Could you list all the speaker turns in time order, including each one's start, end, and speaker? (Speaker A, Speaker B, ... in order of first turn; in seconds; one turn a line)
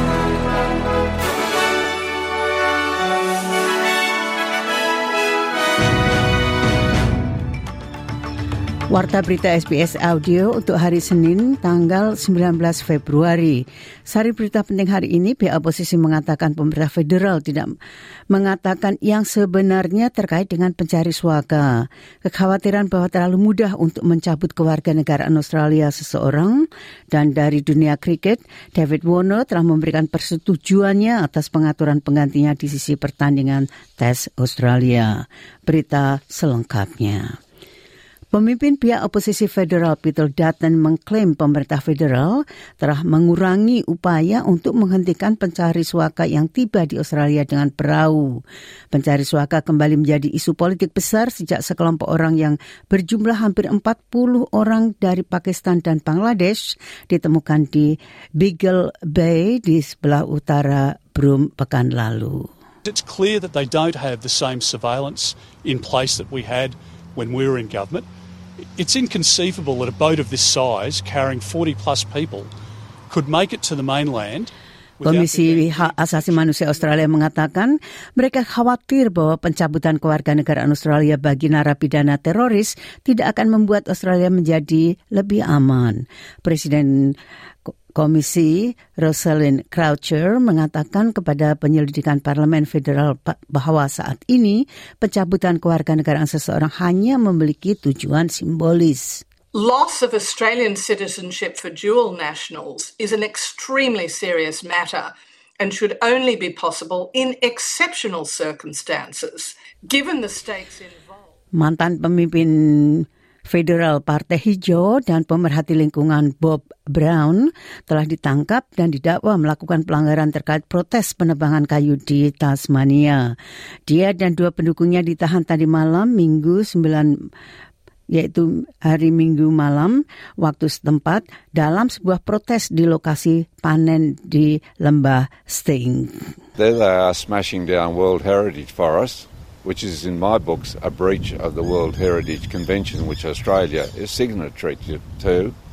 Speaker A: 8.9-17.8
Speaker A: 18.3-37.4
Speaker A: 38.3-62.5
Speaker B: 62.9-68.1
Speaker B: 68.8-72.5
Speaker B: 73.1-76.7
Speaker A: 75.0-87.2
Speaker A: 88.0-99.2
Speaker C: 99.5-111.2
Speaker A: 111.5-123.3
Speaker A: 123.9-127.1
Speaker A: 128.1-136.2
Speaker D: 136.6-145.6